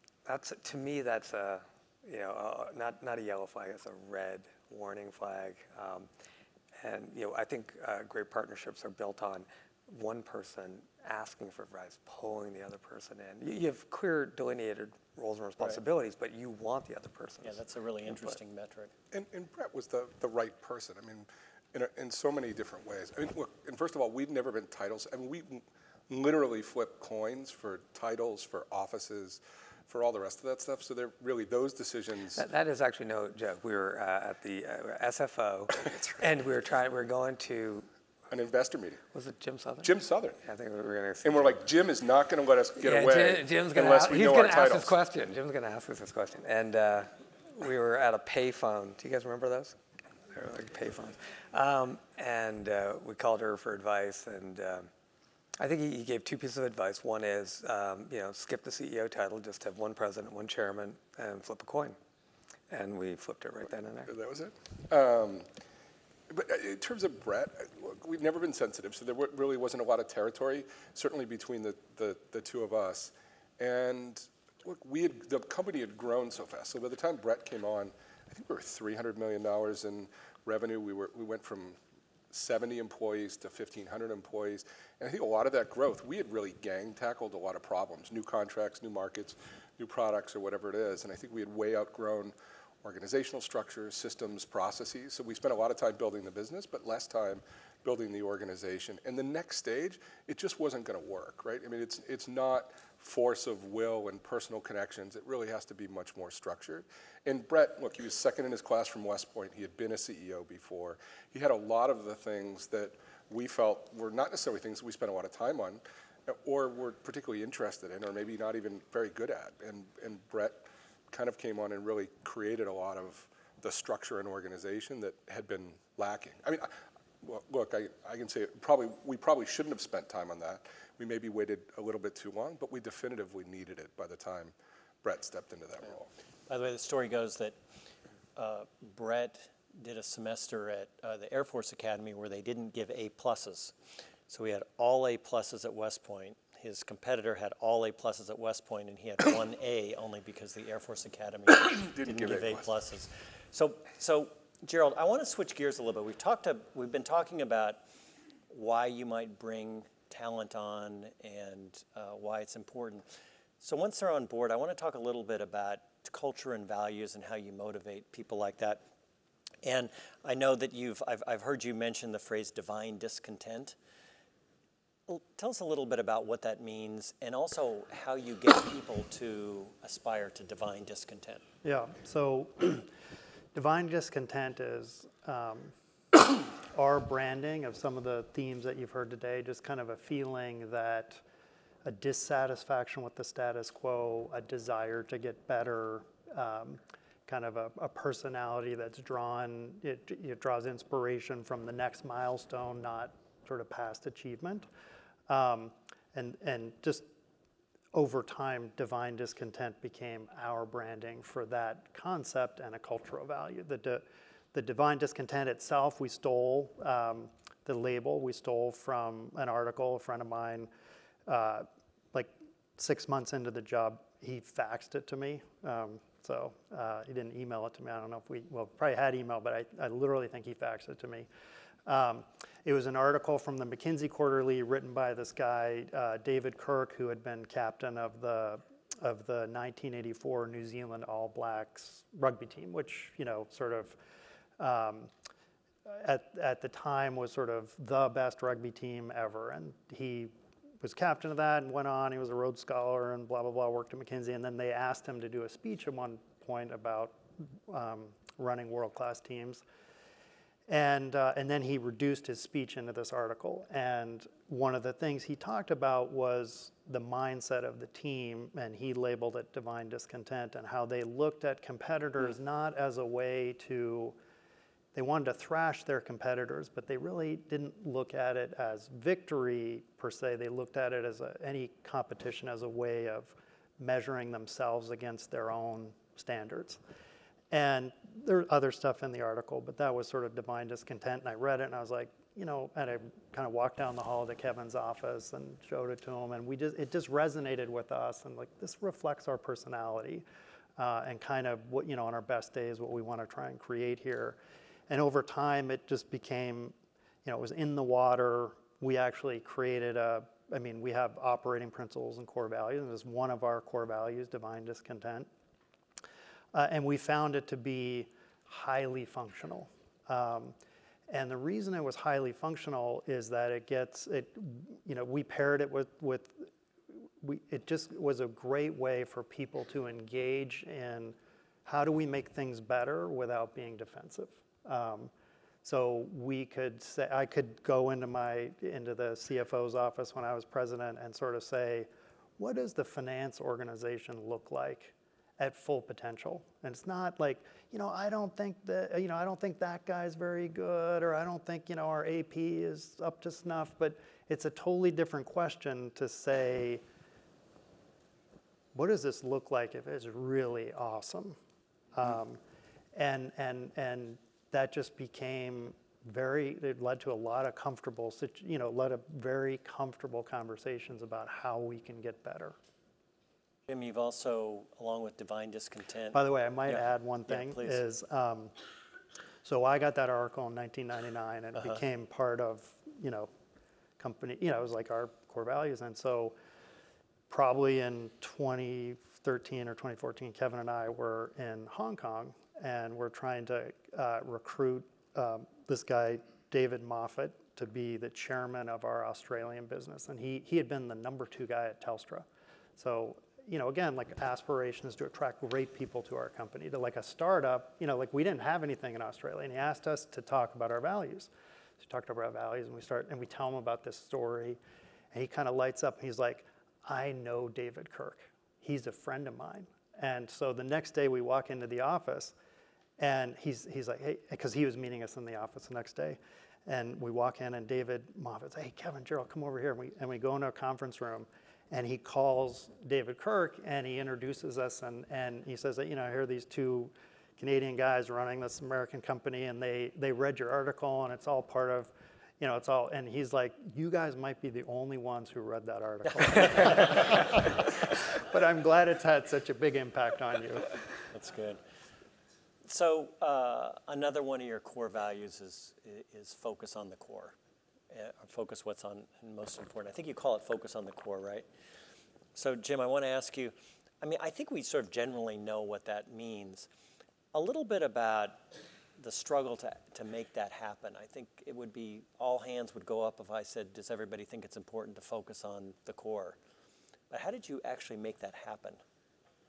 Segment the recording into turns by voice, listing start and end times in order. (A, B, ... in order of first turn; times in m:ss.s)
0:00.3-0:06.1 A
0:06.8-0:17.6 A
0:17.4-0:18.9 B
0:18.1-0:18.4 A
0:19.1-0:32.4 C
0:32.4-0:37.9 A
0:38.3-0:39.0 C
0:39.1-0:41.6 A
0:39.8-0:40.4 C
0:41.2-0:45.0 C
0:42.8-0:49.8 A
0:50.3-0:54.9 A
0:55.6-1:02.0 A
1:02.7-1:04.1 A
1:04.1-1:05.5 C
1:06.3-1:21.8 C
1:22.3-2:16.1 C
2:16.5-2:17.6 B
2:18.4-2:23.8 B
2:24.3-2:37.8 B
2:31.5-2:32.8 C
2:38.5-2:43.1 B
2:43.6-2:48.8 B
2:49.6-2:53.8 B
2:55.1-3:01.4 B
3:01.6-3:02.9 D
3:03.5-3:11.2 D
3:11.8-3:24.7 D
3:25.3-3:27.1 D
3:27.9-3:40.7 D
3:41.3-3:51.3 D
3:51.9-4:04.0 D
4:04.6-4:05.1 D
4:05.9-4:19.6 D
4:20.7-4:34.2 D
4:35.0-4:46.8 D
4:47.5-5:00.2 D
5:00.8-5:04.4 D
5:04.9-5:15.3 D
5:16.5-5:20.6 D
5:21.1-5:26.5 D
5:27.2-5:35.1 D
5:35.6-5:56.8 D
5:58.7-6:01.4 D
6:02.0-6:02.4 D
6:03.0-6:12.6 D
6:13.7-6:17.8 B
6:16.1-6:18.5 D
6:19.4-6:23.3 D
6:24.0-6:26.4 D
6:27.3-6:42.3 D
6:42.8-6:51.3 D
6:51.8-6:54.6 D
6:55.1-7:02.3 D
7:03.0-7:30.8 D
7:26.1-7:27.4 B
7:31.1-7:31.6 B
7:32.7-7:37.4 B
7:37.9-7:41.4 B
7:42.4-7:46.7 B
7:47.3-7:56.4 B
7:57.1-7:58.8 B